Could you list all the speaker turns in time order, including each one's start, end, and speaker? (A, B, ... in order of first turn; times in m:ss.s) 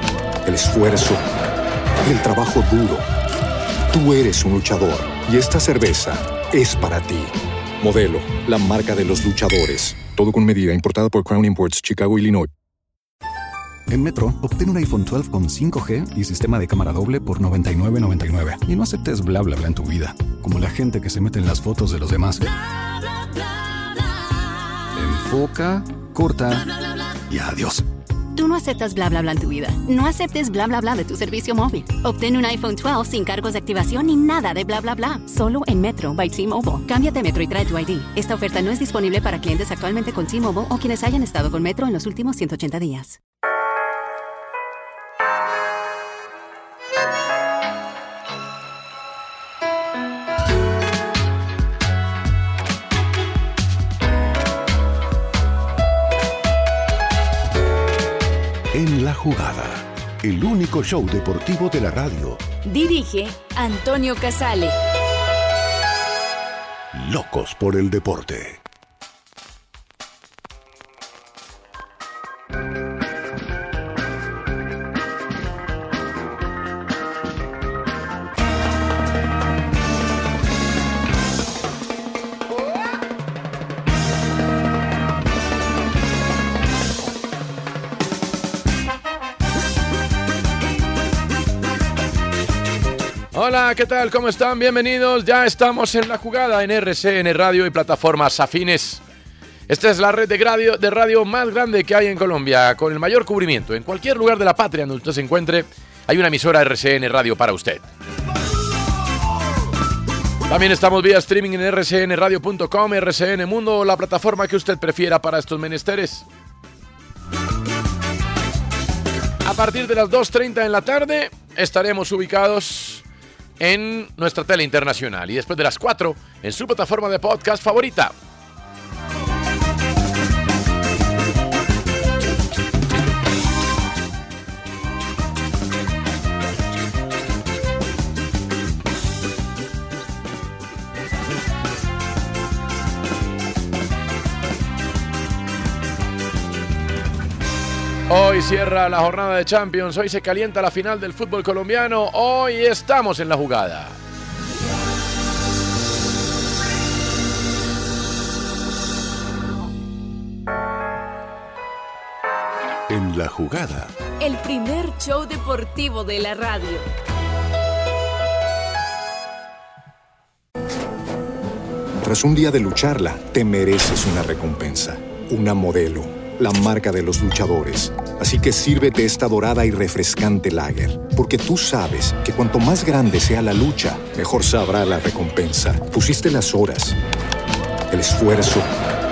0:00.4-0:01.3 A
0:02.0-0:03.1 A
0:03.9-0:12.5 A
0:13.9-0:22.4 B
0:24.9-0:26.7 B
0:27.3-0:27.8 C
0:28.3-0:43.2 D
0:58.7-1:02.4 C
1:02.6-1:04.7 E
1:06.9-1:08.6 C
1:33.3-1:39.0 F
1:39.7-1:47.8 F
1:50.5-1:56.2 F
1:59.4-2:03.0 F
2:03.6-2:08.1 F
2:28.1-2:34.0 F
2:42.9-2:43.9 C
2:44.2-2:46.8 E
2:52.0-3:07.0 A
3:07.9-3:08.7 A